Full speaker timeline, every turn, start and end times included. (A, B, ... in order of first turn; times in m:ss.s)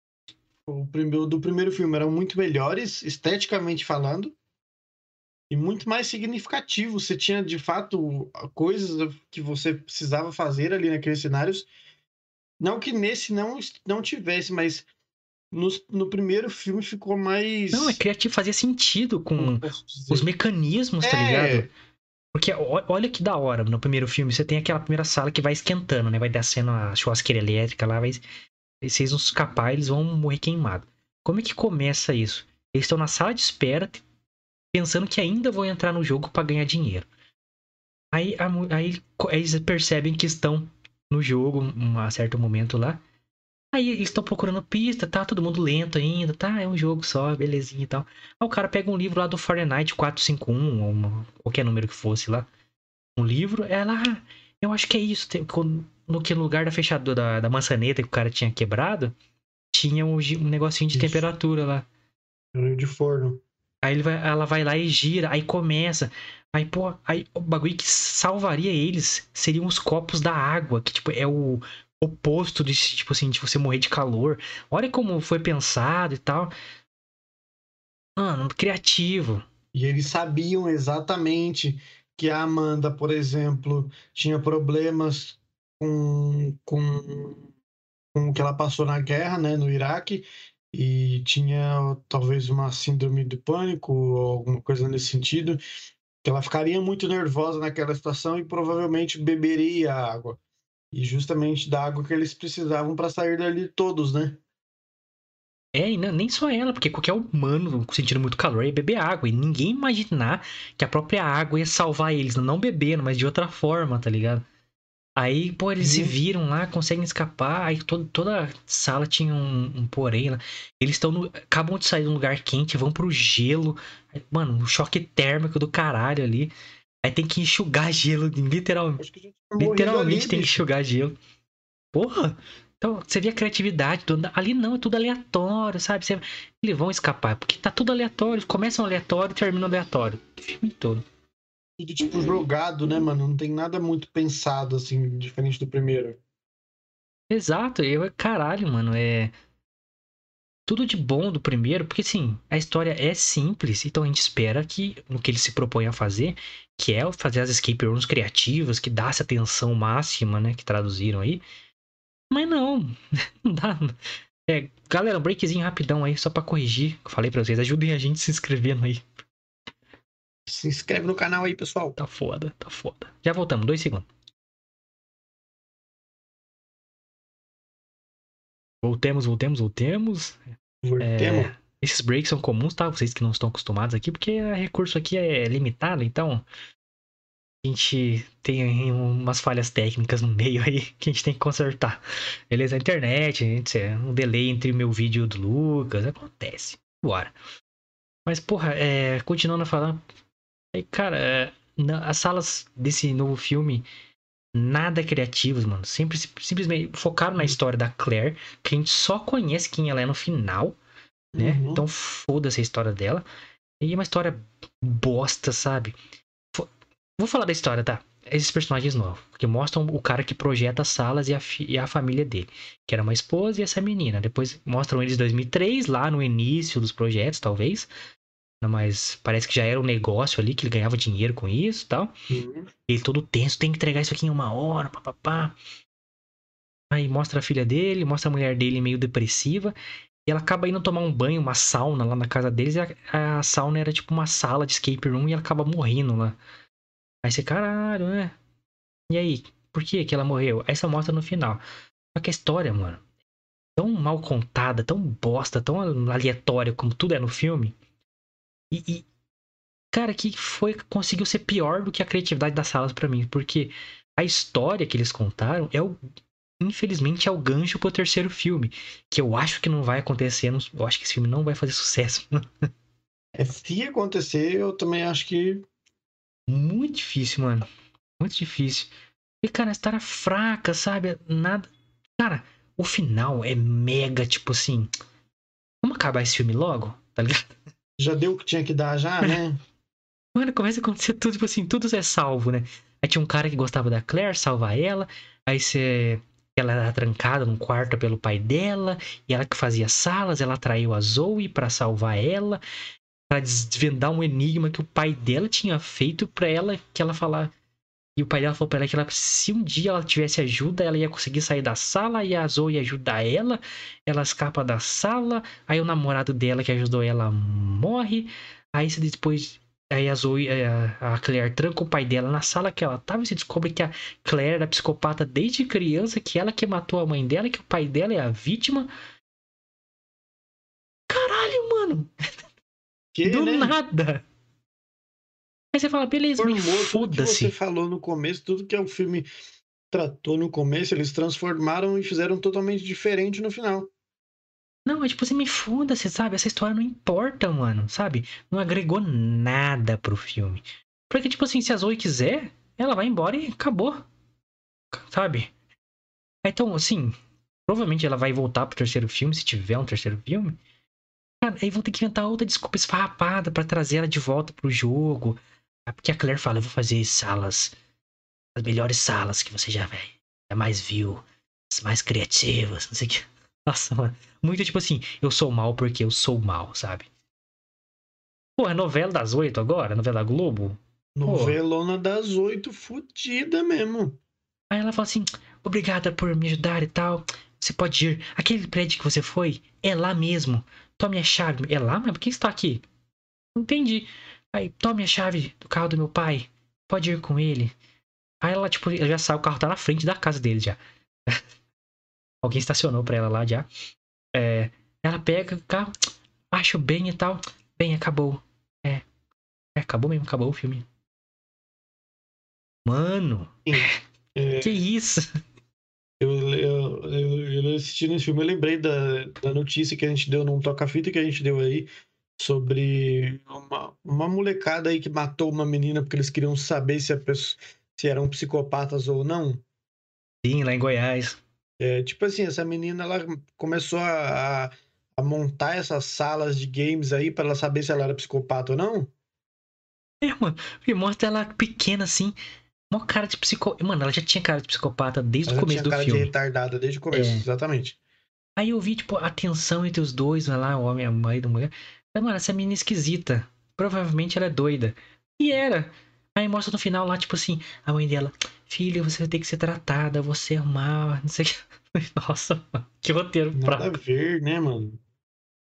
0:00.7-0:04.3 A
0:05.5-0:11.7 A
0:12.6-0:14.8 A
0:15.5-0:18.0 A
0:17.7-0:21.7 B
0:19.4-0:20.3 A
0:21.0-0:21.7 A
0:22.3-0:28.2 B
0:28.8-0:34.0 B
0:34.7-0:37.1 B
0:38.1-0:43.0 B
0:43.7-0:52.5 B
0:53.2-0:59.1 B
0:59.7-1:01.8 B
1:00.9-1:01.2 A
1:02.5-1:03.4 A
1:03.8-1:16.5 B
1:18.2-1:19.4 B
1:19.7-1:27.4 A
1:28.1-1:35.6 A
1:36.2-1:40.4 A
1:40.9-1:44.4 A
1:45.7-1:54.4 B
1:55.2-2:06.5 B
1:55.8-1:56.1 A
2:07.0-2:09.0 B
2:09.0-2:10.6 A
2:09.6-2:11.2 B
2:11.9-2:21.0 B
2:21.8-2:26.2 A
2:27.3-2:29.3 B
2:30.7-2:41.4 B
2:42.3-2:49.1 B
2:50.4-2:52.0 A
2:52.0-2:54.1 B
2:58.8-3:00.4 B
3:00.8-3:01.5 A
3:01.0-3:06.4 B
3:07.6-3:17.3 B
3:18.2-3:20.0 B
3:20.7-3:23.8 B
3:24.5-3:30.8 B
3:31.3-3:31.8 A
3:31.4-3:33.2 B
3:33.8-3:36.0 B
3:36.5-3:47.9 B
3:48.6-3:52.1 B
3:52.3-3:52.7 A
3:52.9-3:55.5 B
3:56.9-3:59.7 B
4:00.2-4:06.4 B
4:07.2-4:08.4 B
4:09.1-4:11.6 B
4:12.1-4:13.0 B
4:13.8-4:17.7 B
4:18.7-4:19.0 B
4:19.9-4:26.0 B
4:26.6-4:32.4 B
4:33.3-4:35.6 A
4:36.5-4:37.6 B
4:38.2-4:38.9 B
4:39.4-4:41.7 B
4:42.2-4:44.9 B
4:45.8-4:47.5 B
4:48.0-4:49.6 A
4:50.3-5:02.6 B
5:03.3-5:07.5 B
5:08.2-5:28.9 B
5:31.1-5:32.1 B
5:33.1-5:33.8 A
5:33.2-5:34.2 B
5:35.7-5:37.5 B
5:36.4-5:39.3 A
5:39.9-5:43.9 A
5:44.8-5:54.0 B
5:54.9-5:55.5 B
5:56.4-6:00.6 B
6:01.4-6:07.7 B
6:08.5-6:17.1 B
6:18.6-6:21.6 B
6:21.2-6:24.2 A
6:24.7-6:32.8 B
6:33.6-6:37.7 B
6:38.4-6:41.4 B
6:42.4-6:43.7 B
6:44.3-6:45.9 B
6:46.5-6:49.0 B
6:49.8-6:50.8 B
6:52.8-6:54.0 B
6:53.6-6:54.8 A
6:54.6-6:55.3 B
6:56.2-7:09.6 A
7:10.4-7:11.4 B
7:11.8-7:19.1 A
7:20.2-7:22.3 B
7:22.9-7:26.3 B
7:25.5-7:28.0 A
7:27.1-7:27.4 B
7:28.6-7:44.0 B
7:43.5-7:45.0 A